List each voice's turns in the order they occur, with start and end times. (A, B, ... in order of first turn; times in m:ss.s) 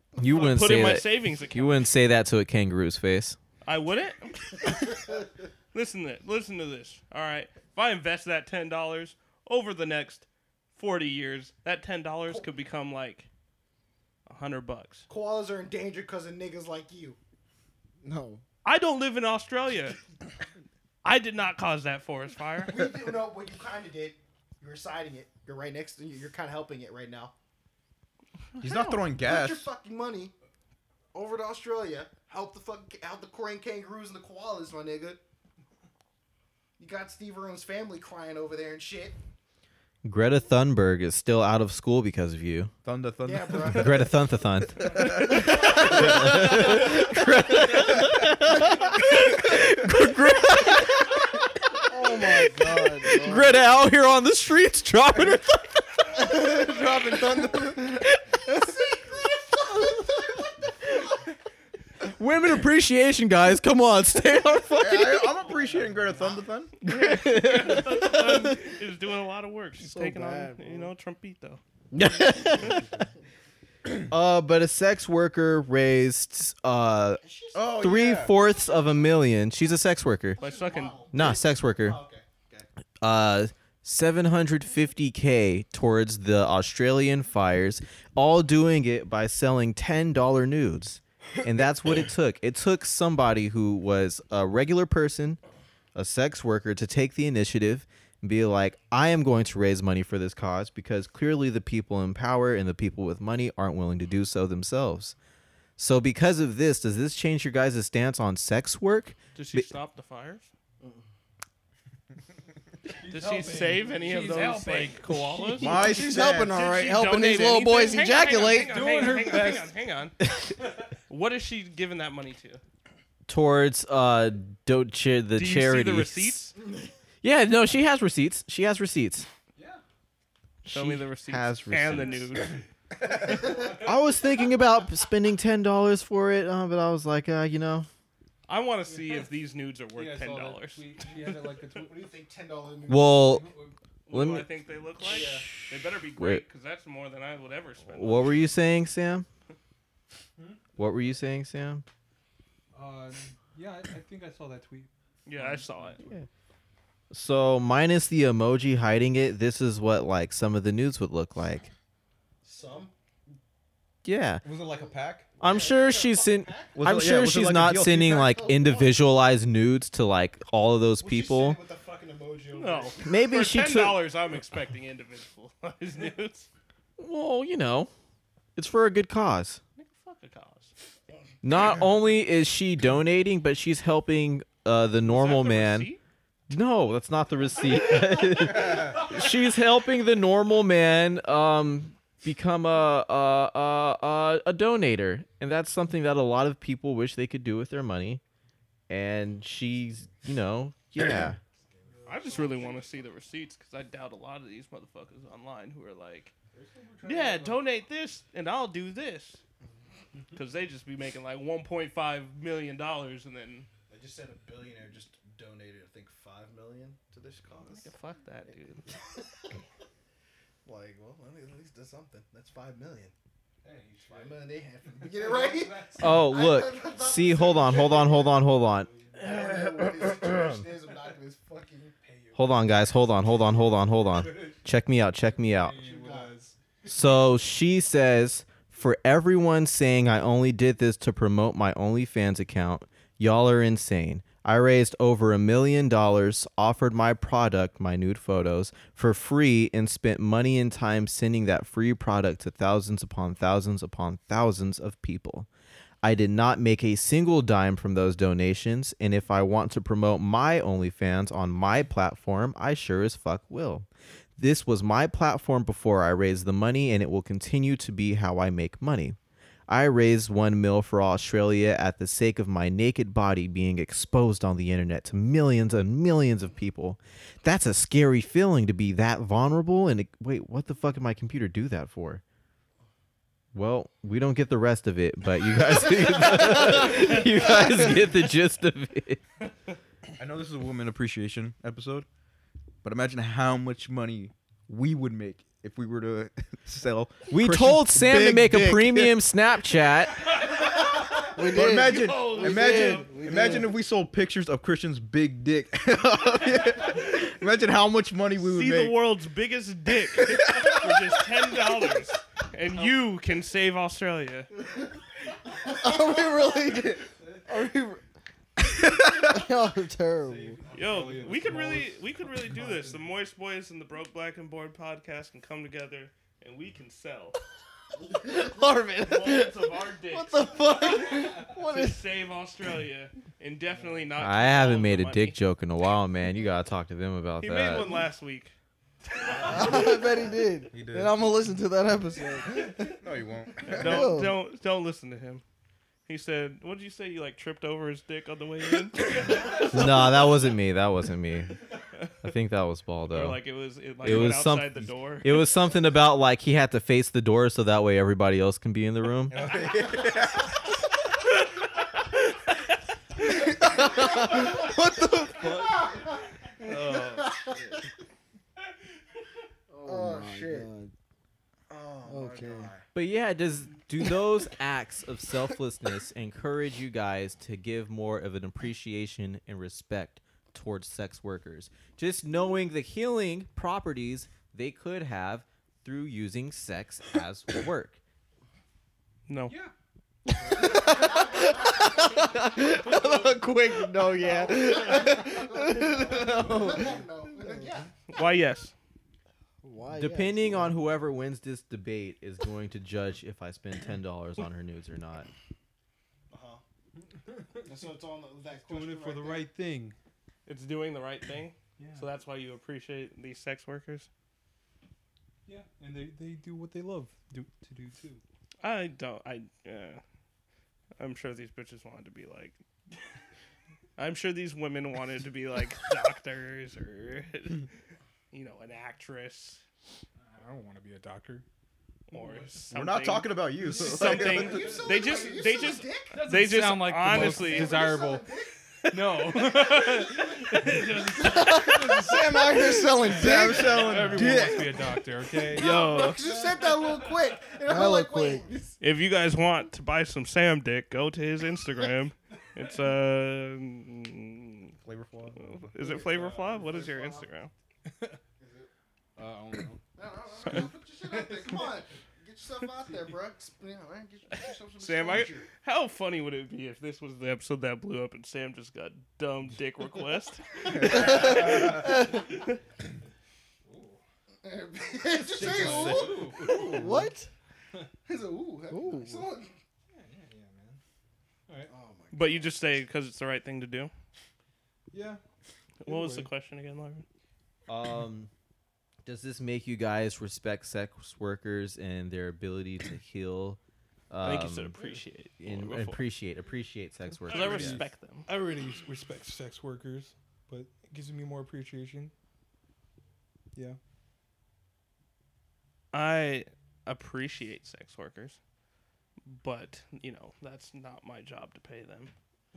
0:00.2-0:03.4 A
0:00.4-0:01.9 B
0:03.6-0:05.0 B
0:05.7-0:13.3 B
0:14.3-0:15.1 B
0:15.1-0:17.2 C
0:18.0-0:18.4 D
0:18.6-0:20.0 B
0:21.0-0:22.8 B
0:22.6-0:27.3 C
0:28.6-0:29.0 B
0:28.6-0:29.7 E
0:28.7-0:30.3 C
0:31.1-0:35.2 C
0:36.8-0:39.2 C
0:40.0-0:42.7 A
0:42.8-0:44.1 E
0:43.2-0:44.1 C
0:43.7-0:51.5 A
0:45.2-0:46.6 E
0:51.9-0:53.6 D
0:52.2-0:56.6 A
0:56.1-0:58.1 D
0:57.4-0:58.1 A
1:02.0-1:05.4 A
1:04.8-1:06.8 E
1:05.5-1:06.3 F
1:06.8-1:11.6 B
1:06.8-1:08.6 A
1:09.8-1:10.9 D
1:11.9-1:13.0 A
1:14.1-1:17.2 A
1:17.2-1:17.8 C
1:17.5-1:18.4 E
1:17.7-1:20.4 A
1:18.6-1:19.1 C
1:20.4-1:22.7 C
1:20.4-1:21.0 B
1:21.1-1:22.0 A
1:23.0-1:35.4 A
1:36.0-1:45.2 A
1:45.8-1:49.7 A
1:49.4-1:50.5 B
1:52.9-1:55.7 F
1:53.1-1:55.9 B
1:55.6-1:56.6 E
1:55.6-1:58.8 D
1:56.5-2:00.2 B
1:58.6-1:59.8 F
2:01.1-2:02.6 B
2:03.3-2:06.5 A
2:05.4-2:06.6 B
2:07.2-2:09.3 A
2:09.6-2:09.8 F
2:10.6-2:12.6 B
2:10.6-2:12.3 A
2:13.2-2:13.9 F
2:13.3-2:13.8 C
2:13.4-2:17.9 A
2:18.5-2:21.0 B
2:18.9-2:19.2 F
2:19.9-2:22.1 F
2:21.2-2:23.4 C
2:22.9-2:23.5 A
2:23.2-2:23.8 F
2:24.1-2:28.4 B
2:24.1-2:24.5 A
2:25.0-2:25.5 F
2:25.1-2:25.3 C
2:25.1-2:26.4 A
2:27.9-2:29.3 A
2:30.4-2:30.6 F
2:30.8-2:31.9 A
2:32.7-2:36.0 F
2:35.3-2:36.0 B
2:36.0-2:36.3 A
2:37.1-2:41.7 A
2:42.4-2:42.9 C
2:44.0-2:44.4 A
2:44.4-2:45.4 E
2:45.4-2:46.8 C
2:45.4-2:51.6 A
2:46.8-2:48.4 E
2:48.0-2:49.0 C
2:51.0-2:53.0 C
2:52.5-2:56.5 B
2:53.0-2:54.1 A
2:57.0-2:57.9 A
2:58.6-2:59.6 A
2:59.8-3:00.7 B
3:01.4-3:05.9 A
3:05.0-3:06.0 B
3:06.5-3:18.2 A
3:18.9-3:21.4 A
3:21.8-3:22.4 C
3:21.9-3:23.1 F
3:22.1-3:26.3 B
3:26.5-3:27.3 C
3:26.8-3:27.6 F
3:27.0-3:29.4 B
3:30.4-3:33.7 B
3:33.9-3:37.9 C
3:37.7-3:38.8 B
3:40.6-3:43.1 C
3:43.6-3:46.4 F
3:44.1-3:48.5 C
3:46.0-3:48.9 A
3:48.6-3:49.4 F
3:49.1-3:52.0 C
3:52.0-3:53.5 F
3:52.4-3:55.8 A
3:54.2-3:54.6 F
3:55.5-3:57.1 F
3:55.8-3:56.4 C
3:56.9-4:15.5 A
4:16.0-4:23.9 A
4:24.4-4:29.2 A
4:29.7-4:42.2 A
4:43.5-4:49.2 A
4:50.2-4:52.1 E
4:52.8-4:59.2 E
4:57.3-5:00.3 A
5:01.2-5:03.8 D
5:01.4-5:09.0 E
5:01.8-5:03.1 B
5:08.4-5:14.5 B
5:15.6-5:18.0 D
5:18.6-5:20.6 D
5:20.2-5:23.1 F
5:20.7-5:27.4 B
5:28.1-5:32.0 D
5:29.0-5:35.4 B
5:34.2-5:38.0 A
5:37.4-5:38.5 B
5:39.4-5:43.0 D
5:40.7-5:41.2 E
5:43.0-5:44.1 E
5:43.7-5:45.4 B
5:43.7-5:44.4 D
5:46.1-5:50.2 B
5:49.5-5:51.6 A
5:52.2-5:53.4 A
5:53.1-5:55.5 B
5:54.0-5:59.5 A
5:59.3-6:00.6 E
6:03.3-6:05.8 D
6:05.7-6:06.2 C
6:06.9-6:07.8 C
6:09.7-6:10.7 C
6:09.8-6:10.9 D
6:11.7-6:12.8 C
6:12.1-6:12.7 D
6:12.9-6:28.0 A
6:29.3-6:29.6 B
6:29.5-6:29.7 F
6:30.3-6:37.6 D
6:30.4-6:30.7 F
6:34.2-6:37.9 C
6:38.1-6:38.7 B
6:39.6-6:40.8 D
6:39.9-6:45.3 A
6:46.3-6:46.6 C
6:47.3-6:47.8 F
6:47.6-6:49.5 C
6:48.6-6:50.0 F
6:50.5-6:54.1 B
6:51.8-6:52.1 F
6:55.5-6:58.2 F
6:58.6-7:00.0 B
7:01.0-7:02.6 B
7:04.0-7:07.7 B
7:08.3-7:09.6 B
7:10.2-7:11.4 F
7:12.1-7:12.7 F
7:12.1-7:17.8 B
7:12.7-7:14.8 E
7:13.7-7:16.2 C
7:14.5-7:15.4 F
7:16.1-7:18.3 F
7:17.1-7:18.6 C
7:18.9-7:27.2 F
7:19.2-7:21.2 B
7:21.2-7:23.8 D
7:23.1-7:24.8 E
7:23.2-7:24.6 C
7:25.5-7:28.8 C
7:25.5-7:26.2 B
7:27.7-7:28.5 D
7:28.8-7:34.7 B
7:34.8-7:35.6 E
7:35.4-7:37.5 B
7:35.8-7:37.1 F
7:36.5-7:37.2 C
7:37.9-7:38.2 F
7:38.4-7:38.7 C
7:39.2-7:39.8 F
7:40.0-7:45.5 C
7:40.5-7:41.8 F
7:44.8-7:51.8 B
7:50.8-7:51.6 E
7:50.9-7:52.2 D
7:51.2-7:51.7 F
7:53.6-7:54.0 F
7:54.4-7:56.9 C
7:55.4-7:57.0 F
7:55.4-7:56.3 E
7:55.7-7:56.8 A
7:56.6-7:57.3 D
7:58.1-7:59.6 C
7:58.7-7:59.3 D
7:59.9-8:00.8 F
8:01.7-8:02.6 C
8:02.1-8:03.9 B
8:04.9-8:05.2 F
8:05.8-8:07.0 B
8:05.8-8:06.3 F
8:07.7-8:08.3 A
8:09.0-8:13.6 A
8:14.1-8:14.8 A
8:14.2-8:16.0 B
8:15.4-8:17.8 A
8:17.3-8:18.3 B
8:17.3-8:22.1 F
8:25.9-8:28.4 B
8:29.3-8:32.1 B